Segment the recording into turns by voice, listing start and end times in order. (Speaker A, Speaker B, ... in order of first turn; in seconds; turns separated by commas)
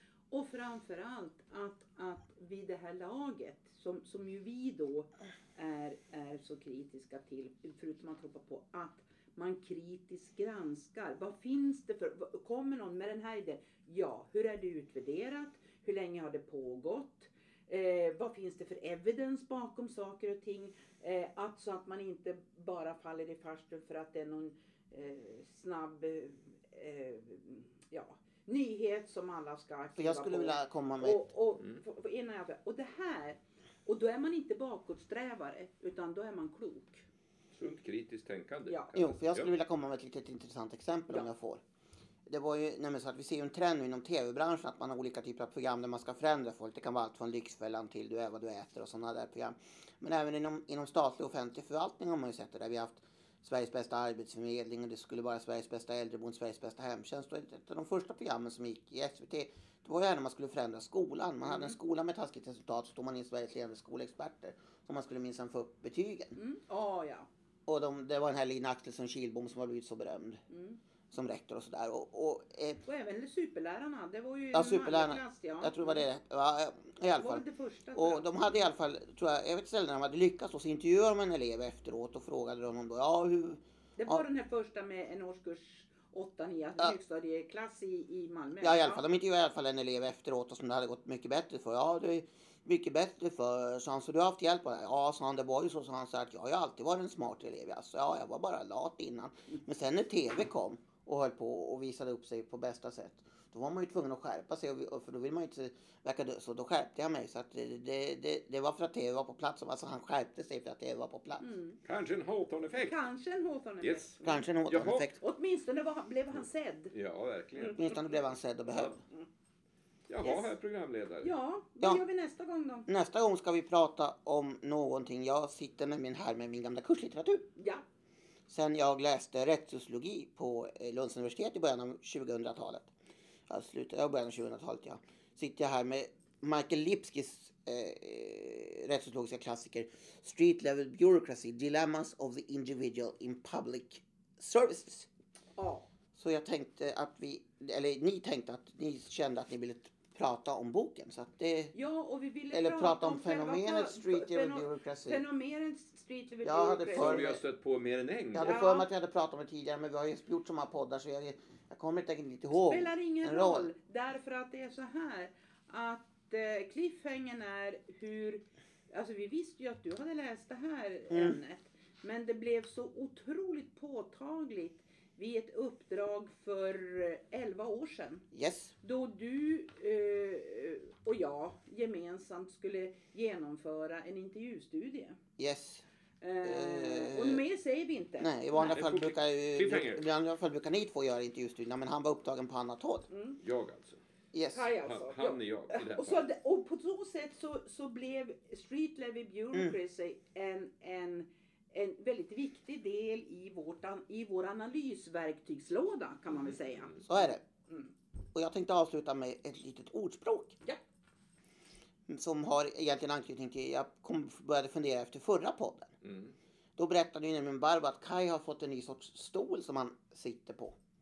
Speaker A: 0.3-37.0, Speaker B: 29.9-31.2, Speaker C: 37.5-39.5, Speaker A: 38.7-38.9, Speaker B: 39.0-41.6, Speaker B: 42.3-66.3, Speaker A: 61.5-61.8, Speaker A: 66.3-67.3, Speaker B: 67.7-70.4, Speaker A: 70.5-70.8, Speaker B: 71.1-72.8, Speaker A: 72.8-76.0, Speaker B: 74.5-77.4, Speaker A: 77.2-78.6, Speaker B: 77.9-84.2, Speaker A: 84.0-89.0, Speaker B: 88.6-111.5, Speaker A: 111.4-111.8, Speaker C: 111.8-112.9, Speaker A: 112.7-114.5, Speaker C: 113.8-115.1, Speaker B: 114.2-115.2, Speaker A: 115.2-116.9, Speaker C: 116.9-117.9, Speaker B: 117.8-119.0, Speaker C: 120.1-121.3, Speaker A: 120.2-120.5, Speaker A: 121.2-122.9, Speaker B: 122.9-127.5, Speaker A: 127.5-127.8, Speaker B: 128.5-132.9, Speaker B: 133.5-145.1, Speaker A: 145.6-145.9, Speaker B: 146.2-151.7, Speaker A: 151.7-157.4, Speaker B: 152.5-155.2, Speaker B: 156.4-157.4, Speaker C: 156.9-158.6, Speaker B: 158.3-163.7, Speaker A: 158.4-158.9, Speaker A: 162.5-178.2, Speaker B: 171.1-171.4, Speaker B: 178.3-178.7, Speaker A: 178.8-185.2, Speaker B: 185.4-185.8, Speaker A: 186.2-188.8, Speaker B: 186.4-187.4, Speaker B: 188.2-193.1, Speaker C: 188.5-190.1, Speaker A: 193.1-193.4, Speaker C: 193.4-194.0, Speaker B: 194.3-194.7, Speaker A: 194.5-207.9, Speaker C: 194.7-196.3, Speaker B: 207.1-207.4, Speaker B: 208.3-210.6, Speaker B: 212.1-215.9, Speaker C: 216.0-216.3, Speaker B: 216.8-220.8